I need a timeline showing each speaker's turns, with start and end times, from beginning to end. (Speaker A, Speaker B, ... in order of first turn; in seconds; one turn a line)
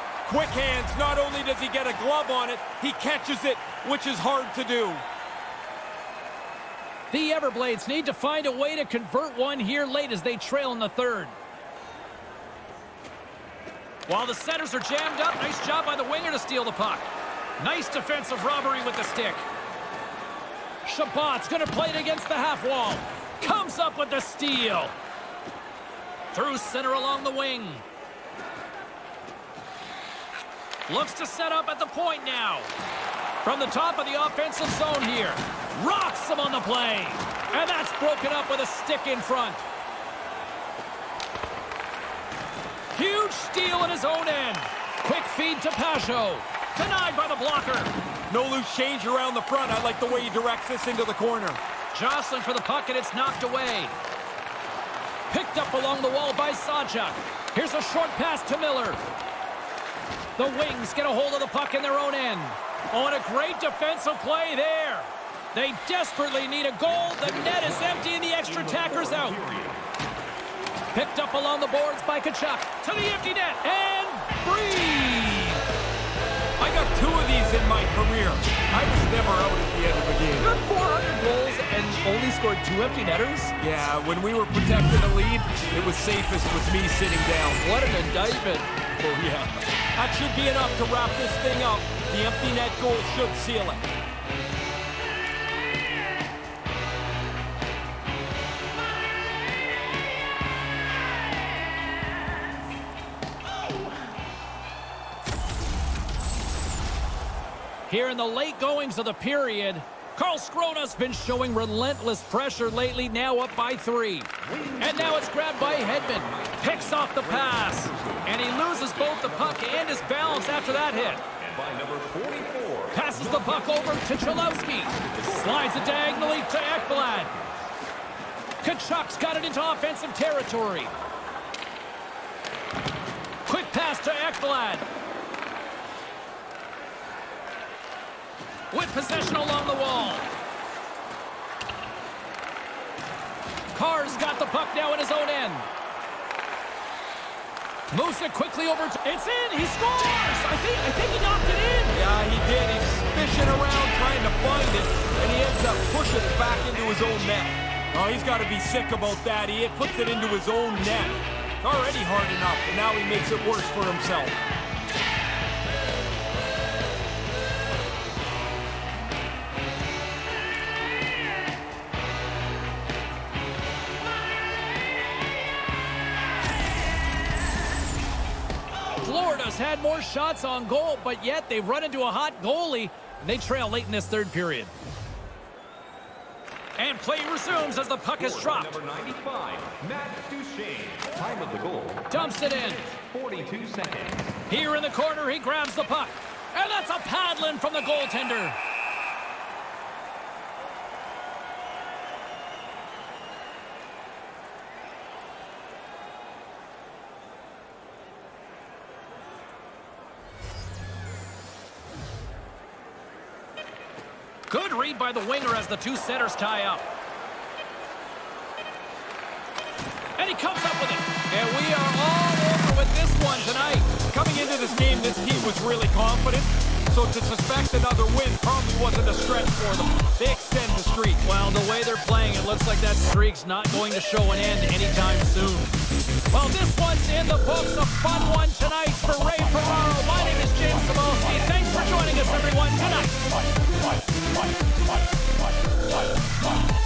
Speaker A: 0.2-5.0
Speaker B: 7.1-11.3
Speaker B: 14.1-17.1
Speaker B: 17.6-19.4
Speaker B: 20.8-24.9
Speaker B: 26.3-27.8
Speaker B: 30.9-32.7
Speaker B: 33.4-39.6
Speaker B: 42.9-47.9
Speaker A: 48.3-51.6
Speaker B: 51.9-54.0
Speaker B: 55.3-59.0
Speaker B: 60.4-69.4
Speaker C: 67.0-69.8
Speaker B: 70.9-75.6
Speaker A: 76.6-80.5
Speaker B: 80.4-83.5
Speaker A: 83.6-87.6
Speaker B: 87.6-88.7
Speaker A: 89.0-93.8
Speaker B: 107.9-121.2
Speaker C: 114.4-127.7
Speaker B: 122.9-127.3
Speaker B: 128.6-130.9
Speaker B: 133.4-134.8
Speaker B: 138.7-140.3
Speaker B: 143.7-145.7
Speaker B: 147.9-152.0
Speaker A: 151.9-164.4
Speaker B: 179.0-184.7
Speaker B: 186.8-188.8
Speaker C: 188.2-194.3
Speaker B: 192.1-192.9
Speaker B: 194.5-198.6
Speaker B: 214.5-216.8
Speaker B: 220.2-223.9
Speaker A: 224.1-231.2
Speaker B: 231.2-235.8
Speaker B: 236.3-243.2